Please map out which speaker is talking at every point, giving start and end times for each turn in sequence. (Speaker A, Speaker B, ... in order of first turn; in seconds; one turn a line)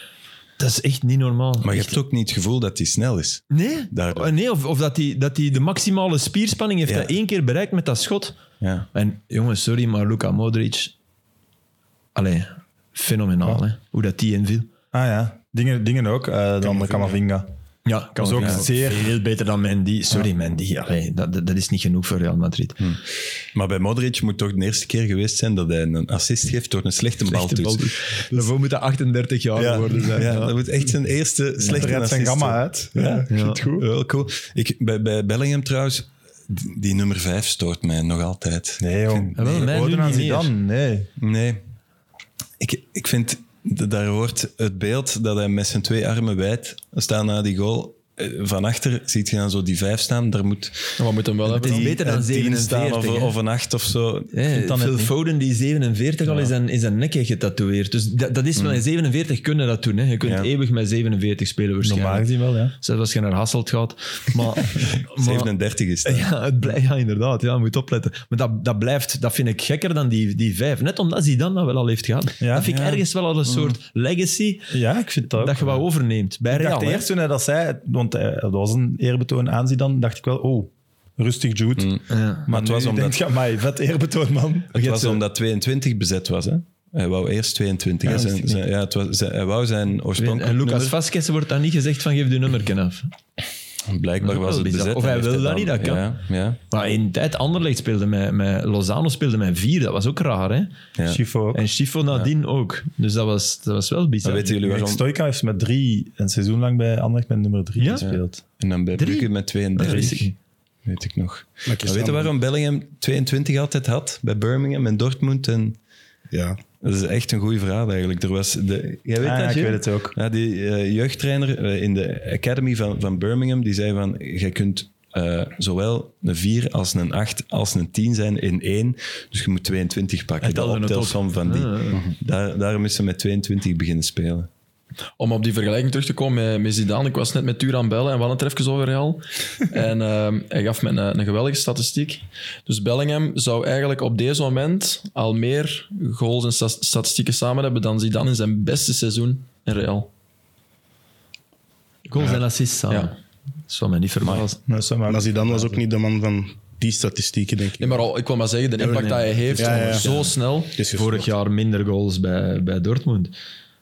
Speaker A: 0.6-2.0
Speaker B: 1.6-4.3
Speaker A: 3.5-8.4
Speaker B: 8.6-8.9
Speaker A: 8.9-10.9
Speaker A: 12.1-14.7
Speaker C: 14.9-17.5
Speaker D: 16.6-17.1
Speaker A: 17.8-22.8
Speaker C: 18.1-19.1
Speaker B: 23.5-28.5
Speaker A: 27.2-30.5
Speaker B: 29.6-39.7
Speaker C: 31.6-33.8
Speaker A: 33.3-33.6
Speaker C: 38.8-41.1
Speaker A: 39.4-40.5
Speaker B: 41.2-41.6
Speaker B: 42.6-51.0
Speaker E: 51.0-51.9
Speaker A: 51.5-53.3
Speaker B: 51.5-54.3
Speaker C: 51.8-52.2
Speaker A: 54.3-65.5
Speaker C: 54.5-55.1
Speaker B: 58.5-58.8
Speaker C: 61.8-62.7
Speaker B: 64.7-66.3
Speaker A: 66.0-74.7
Speaker C: 72.4-72.7
Speaker B: 72.6-73.8
Speaker C: 74.7-75.8
Speaker A: 75.3-77.0
Speaker C: 76.5-84.7
Speaker B: 81.8-83.2
Speaker A: 82.1-82.5
Speaker A: 84.7-85.2
Speaker B: 84.7-91.0
Speaker A: 88.0-88.6
Speaker A: 90.2-93.1
Speaker B: 93.9-96.6
Speaker A: 94.2-96.1
Speaker A: 96.7-100.7
Speaker B: 101.0-101.2
Speaker C: 101.1-101.6
Speaker A: 101.5-104.5
Speaker B: 104.2-105.0
Speaker C: 104.6-108.4
Speaker A: 107.8-108.1
Speaker B: 108.0-110.3
Speaker A: 108.9-110.3
Speaker B: 110.8-115.8
Speaker D: 111.7-112.3
Speaker D: 116.3-116.6
Speaker B: 116.8-134.5
Speaker C: 119.2-120.2
Speaker A: 130.4-132.0
Speaker E: 135.2-150.1
Speaker A: 152.1-153.2
Speaker A: 153.7-154.6
Speaker C: 154.7-155.7
Speaker D: 155.1-158.0
Speaker E: 157.8-160.7
Speaker A: 158.8-160.3
Speaker D: 159.6-161.3
Speaker A: 160.9-163.3